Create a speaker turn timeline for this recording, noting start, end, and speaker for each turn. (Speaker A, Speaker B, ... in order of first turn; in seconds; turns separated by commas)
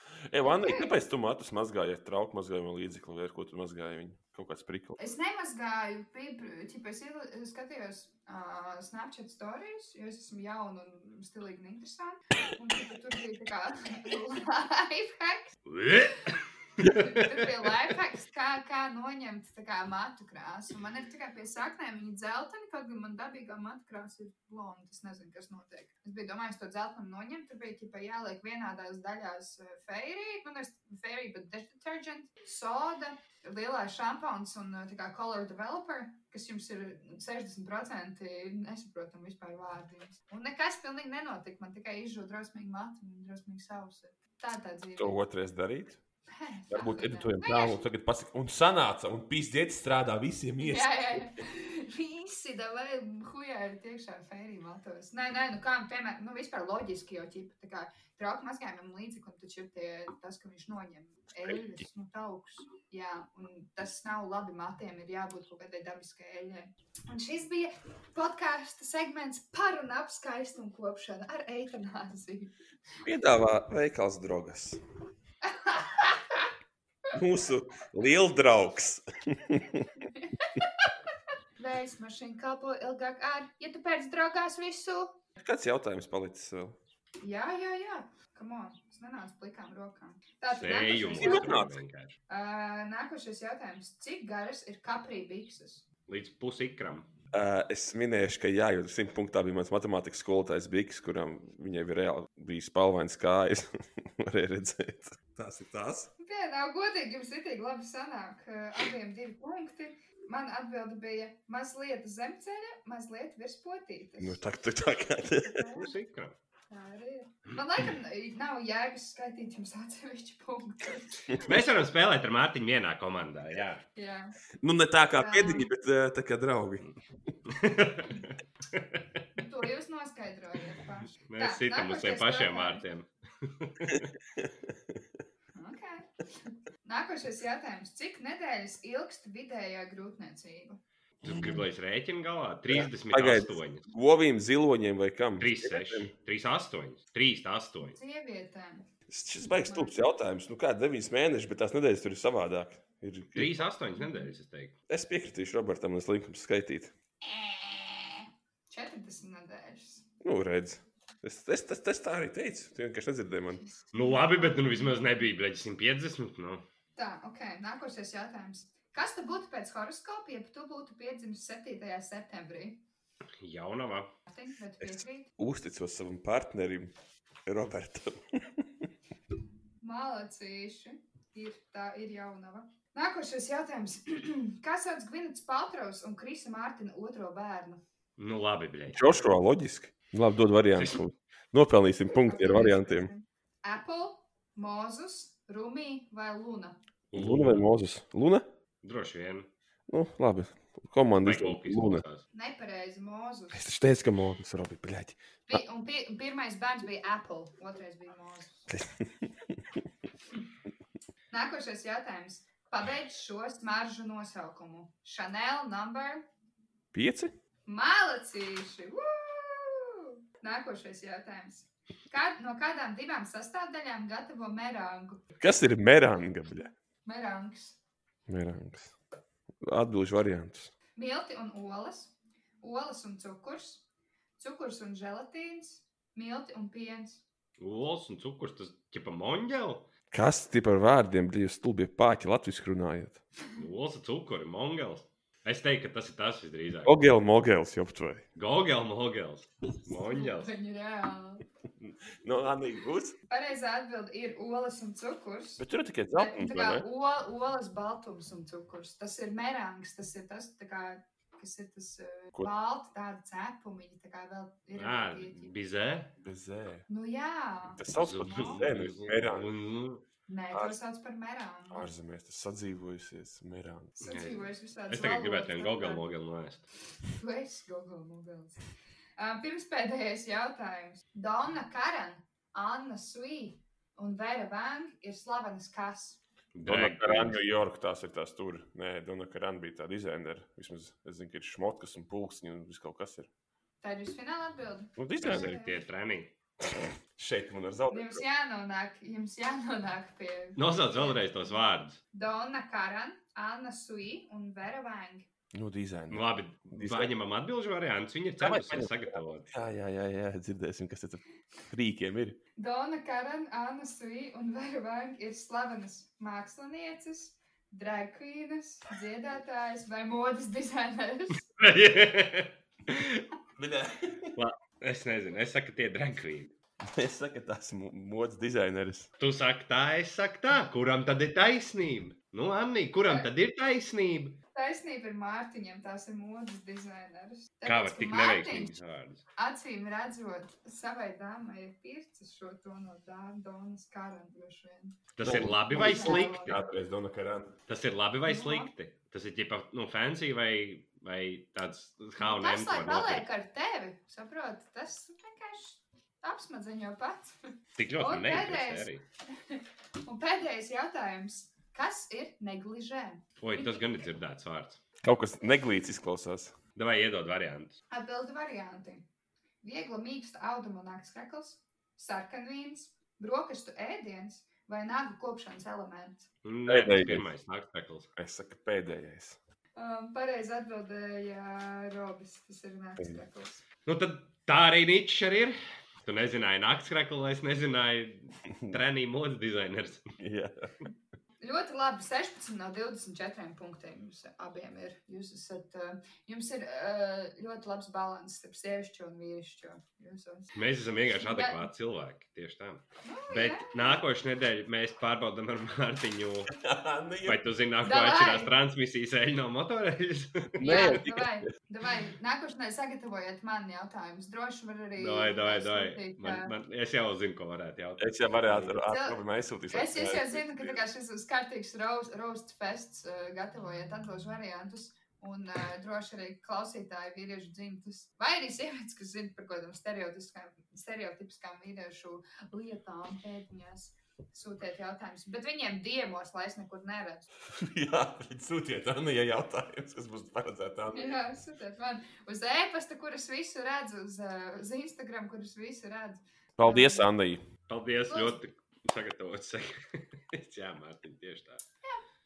Speaker A: 0.3-5.0, Speaker B: 0.4-0.9, Speaker B: 5.0-15.6, Speaker C: 15.7-17.5, Speaker B: 16.8-45.2, Speaker A: 45.0-46.0, Speaker B: 46.3-47.8, Speaker A: 46.7-51.3, Speaker B: 50.6-72.5, Speaker A: 61.4-61.8, Speaker A: 73.0-74.8, Speaker B: 75.4-76.5, Speaker A: 77.1-79.9, Speaker B: 80.1-80.9, Speaker B: 81.6-85.2, Speaker A: 85.4-86.8, Speaker B: 87.2-91.7, Speaker C: 90.5-92.2, Speaker A: 91.2-91.7, Speaker B: 92.3-95.8, Speaker C: 96.1-97.1, Speaker A: 97.3-106.1, Speaker B: 106.2-114.5, Speaker A: 114.2-115.8, Speaker B: 115.4-115.9, Speaker C: 115.7-116.3, Speaker B: 116.7-121.5, Speaker C: 121.4-123.8, Speaker B: 123.9-124.3, Speaker A: 124.6-126.8, Speaker B: 125.2-125.7, Speaker C: 127.4-129.2, Speaker B: 129.3-132.8, Speaker C: 131.2-134.1, Speaker A: 133.9-135.0, Speaker B: 135.5-140.8, Speaker C: 141.2-143.8, Speaker A: 141.2-141.6, Speaker A: 142.7-146.1, Speaker C: 145.4-148.0, Speaker B: 148.0-148.9, Speaker A: 149.1-153.6, Speaker B: 149.7-149.9, Speaker C: 153.3-154.7, Speaker B: 154.0-154.3, Speaker A: 154.9-156.9, Speaker B: 157.2-160.1, Speaker A: 160.2-163.6, Speaker B: 163.7-165.3, Speaker C: 163.9-166.6, Speaker B: 166.9-172.8, Speaker C: 173.4-174.1, Speaker B: 174.3-175.3, Speaker A: 174.8-176.9, Speaker A: 177.4-178.9, Speaker B: 179.8-187.8, Speaker C: 188.2-189.0, Speaker A: 188.9-193.1, Speaker C: 190.7-191.0, Speaker B: 192.2-196.8, Speaker C: 197.1-197.7, Speaker A: 197.1-198.4, Speaker C: 198.8-199.5, Speaker A: 199.9-202.0, Speaker C: 201.2-202.2, Speaker B: 202.3-203.7, Speaker A: 203.5-205.2, Speaker B: 205.5-208.7, Speaker A: 208.7-209.8, Speaker B: 211.3-216.2, Speaker A: 216.9-217.3, Speaker B: 217.7-225.2, Speaker A: 225.4-226.7, Speaker B: 227.0-227.8, Speaker A: 228.3-228.9, Speaker A: 229.6-230.7, Speaker B: 230.9-233.8, Speaker B: 234.4-237.2, Speaker C: 237.6-239.8, Speaker A: 240.1-243.2, Speaker C: 243.6-247.0, Speaker A: 246.8-248.2, Speaker C: 248.3-250.5, Speaker B: 249.9-251.4, Speaker A: 252.2-253.2, Speaker B: 253.3-265.5, Speaker A: 255.6-256.8, Speaker C: 264.7-266.1, Speaker A: 266.2-266.9, Speaker B: 266.9-268.6, Speaker A: 267.8-269.5, Speaker C: 268.0-270.0, Speaker B: 270.3-271.9, Speaker A: 271.7-274.0, Speaker B: 274.0-276.0, Speaker C: 274.0-276.6, Speaker B: 277.0-278.6, Speaker B: 279.2-286.2, Speaker C: 286.5-287.4, Speaker A: 286.6-293.3, Speaker B: 293.8-295.8, Speaker A: 295.0-295.6, Speaker C: 295.2-296.3, Speaker A: 296.6-298.2, Speaker B: 297.9-305.3, Speaker C: 300.6-302.0, Speaker A: 305.5-307.1, Speaker C: 306.1-309.5, Speaker A: 308.4-312.4, Speaker B: 312.6-321.5, Speaker C: 321.6-323.3, Speaker A: 323.6-324.3, Speaker C: 324.4-326.5, Speaker A: 326.8-329.1, Speaker C: 329.2-334.4, Speaker B: 334.5-338.8, Speaker C: 337.6-339.2, Speaker B: 339.4-346.6, Speaker C: 345.2-346.6, Speaker A: 345.2-347.6, Speaker C: 347.7-353.2, Speaker B: 348.2-348.7, Speaker B: 352.2-358.9, Speaker C: 357.8-359.0, Speaker B: 359.4-363.9, Speaker C: 363.4-364.8, Speaker A: 365.0-366.5, Speaker C: 366.8-367.8, Speaker B: 367.9-369.0, Speaker B: 369.6-376.3, Speaker C: 376.4-378.1, Speaker A: 376.7-377.3, Speaker A: 378.1-379.4, Speaker B: 379.8-383.6, Speaker C: 383.9-390.1, Speaker A: 390.2-390.7, Speaker B: 391.4-400.6, Speaker C: 400.5-406.5, Speaker B: 401.1-401.7, Speaker B: 403.0-404.0, Speaker A: 406.5-407.4, Speaker C: 407.2-411.0, Speaker B: 407.8-408.5, Speaker A: 410.6-411.4, Speaker B: 410.6-416.5, Speaker C: 415.0-418.8, Speaker A: 418.0-420.8, Speaker B: 418.9-437.3, Speaker A: 437.5-441.2, Speaker B: 440.9-447.1, Speaker A: 446.6-447.4, Speaker C: 447.7-451.6, Speaker B: 448.1-448.4